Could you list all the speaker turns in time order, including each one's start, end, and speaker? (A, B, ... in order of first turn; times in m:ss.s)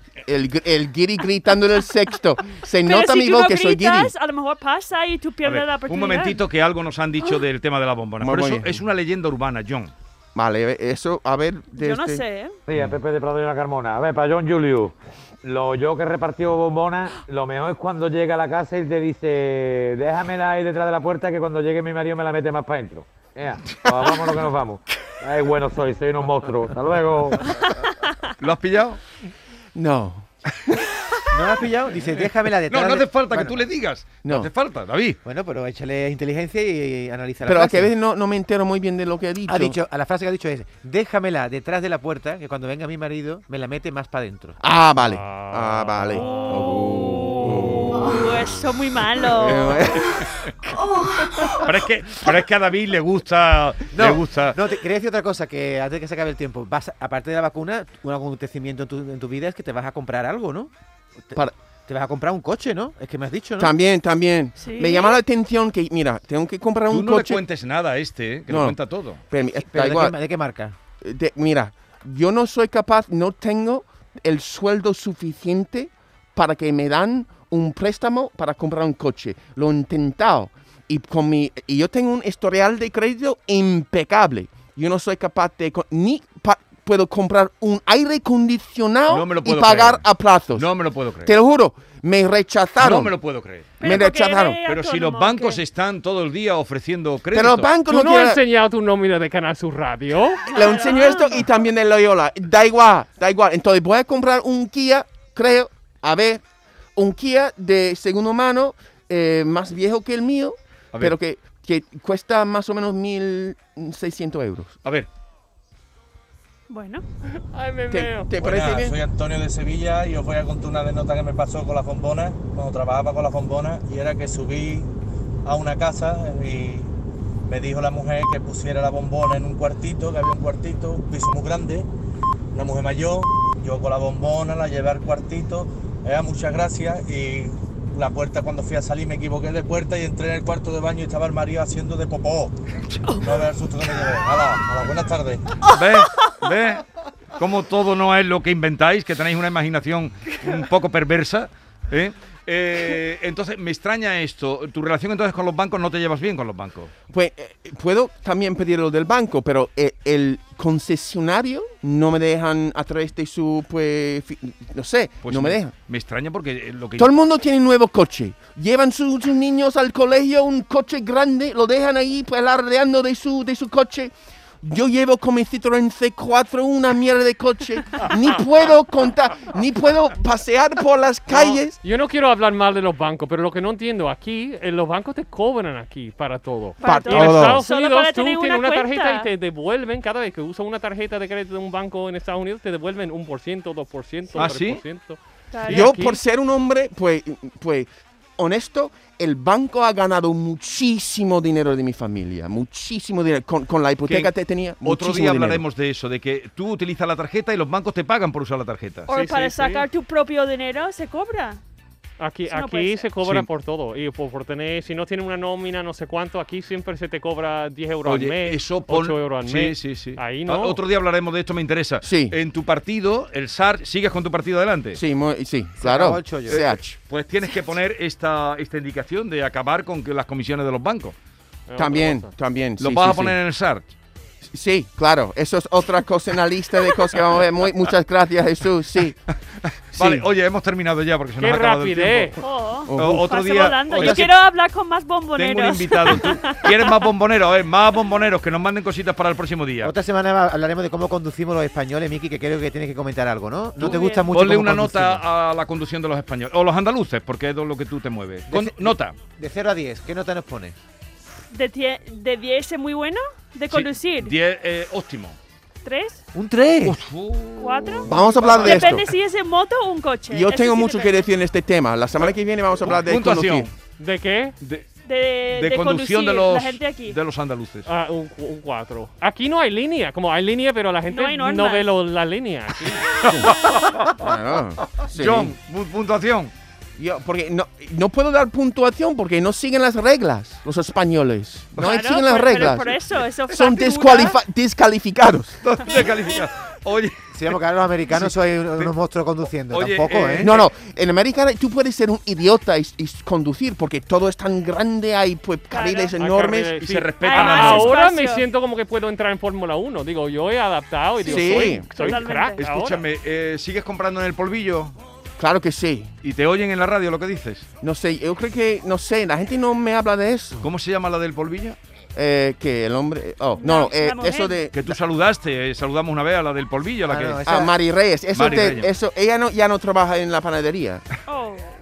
0:00.2-0:04.1 A
0:02.8-0:06.4 B
0:05.4-0:09.9 C
0:08.2-0:08.8 A
0:10.4-0:12.2 A
0:11.8-0:12.6 B
0:12.7-0:27.5 D
0:27.9-0:28.3 B
0:28.4-0:29.0 C
0:29.8-0:30.8 A
0:31.3-0:33.7 E
0:32.7-0:35.2 C
0:34.2-0:34.5 A
0:35.2-0:37.9 E
0:37.5-0:39.8 A
0:39.5-0:44.6 E
0:44.6-0:48.2 A
0:45.0-0:47.9 F
0:46.2-0:46.7 B
0:47.9-0:49.8 B
0:49.2-0:51.6 A
0:50.0-0:50.5 C
0:51.6-0:54.6 C
0:53.9-1:00.7 E
1:01.2-1:03.7 E
1:03.6-1:07.4 A
1:04.6-1:05.2 B
1:06.9-1:09.2 C
1:08.5-1:08.8 A
1:09.3-1:10.2 A
1:09.6-1:10.8 E
1:11.0-1:30.7 A
1:29.1-1:31.3 C
1:31.2-1:33.2 A
1:32.8-1:34.0 C
1:33.8-1:35.6 B
1:33.8-1:34.6 A
1:34.7-1:37.7 C
1:37.3-1:38.4 A
1:37.9-1:40.5 F
1:40.5-1:41.5 B
1:40.5-1:46.4 A
1:47.0-1:54.8 A
1:56.7-1:57.0 B
1:57.5-1:58.3 F
1:57.9-1:59.0 A
1:58.4-2:04.9 G
2:05.4-2:06.9 G
2:07.5-2:11.9 G
2:12.5-2:22.5 G
2:23.2-2:25.5 G
2:25.6-2:26.8 C
2:27.4-2:36.9 C
2:37.1-2:45.7 A
2:45.2-2:47.1 C
2:47.0-3:01.8 A
3:01.8-3:16.2 F
3:06.8-3:09.3 B
3:06.8-3:07.6 A
3:14.4-3:14.8 C
3:15.5-3:16.0 B
3:15.7-3:25.6 A
3:24.0-3:24.3 C
3:24.8-3:29.1 C
3:29.1-3:31.6 B
3:29.1-3:29.9 F
3:32.2-3:40.8 F
3:32.5-3:33.1 B
3:33.2-3:33.5 C
3:38.0-3:45.0 C
3:42.0-3:42.4 A
3:45.0-3:47.0 A
3:45.8-3:46.6 E
3:46.5-3:51.2 C
3:51.7-3:52.3 F
3:51.8-3:53.4 A
3:52.8-3:53.9 C
3:54.5-3:59.2 A
3:59.6-4:02.4 C
4:00.0-4:00.2 A
4:01.4-4:02.4 F
4:02.4-4:07.0 B
4:02.9-4:03.3 A
4:03.0-4:04.4 C
4:05.4-4:09.9 C
4:09.8-4:15.2 E
4:13.8-4:19.2 C
4:13.8-4:14.3 B
4:18.5-4:20.8 E
4:21.5-4:24.3 B
4:23.7-4:25.4 C
4:25.8-4:26.2 B
4:26.3-4:27.0 E
4:26.8-4:28.7 C
4:27.6-4:31.3 B
4:28.1-4:29.1 A
4:28.4-4:28.8 F
4:30.3-4:33.7 A
4:32.2-4:33.7 C
4:34.0-4:34.6 F
4:34.6-4:34.9 C
4:35.1-4:37.2 B
4:35.5-4:37.9 C
4:37.9-4:43.1 F
4:41.1-4:41.9 B
4:43.2-4:44.2 C
4:43.3-4:45.6 A
4:45.0-4:46.5 C
4:47.0-4:55.6 A
4:51.8-4:54.4 B
4:55.6-4:57.5 C
4:57.3-5:00.6 E
4:58.1-4:58.9 C
4:59.6-5:00.7 C
5:00.4-5:06.8 A
5:05.7-5:06.1 B
5:06.2-5:13.0 F
5:06.8-5:08.0 C
5:07.2-5:08.4 B
5:11.2-5:12.6 B
5:11.2-5:11.9 A
5:12.6-5:15.0 C
5:15.4-5:16.1 A
5:16.2-5:17.7 C
5:17.8-5:20.6 A
5:20.6-5:21.8 C
5:22.2-5:25.0 A
5:23.6-5:24.6 B
5:24.7-5:27.4 C
5:27.0-5:27.7 E
5:27.5-5:31.1 A
5:28.3-5:28.9 C
5:31.3-5:31.7 B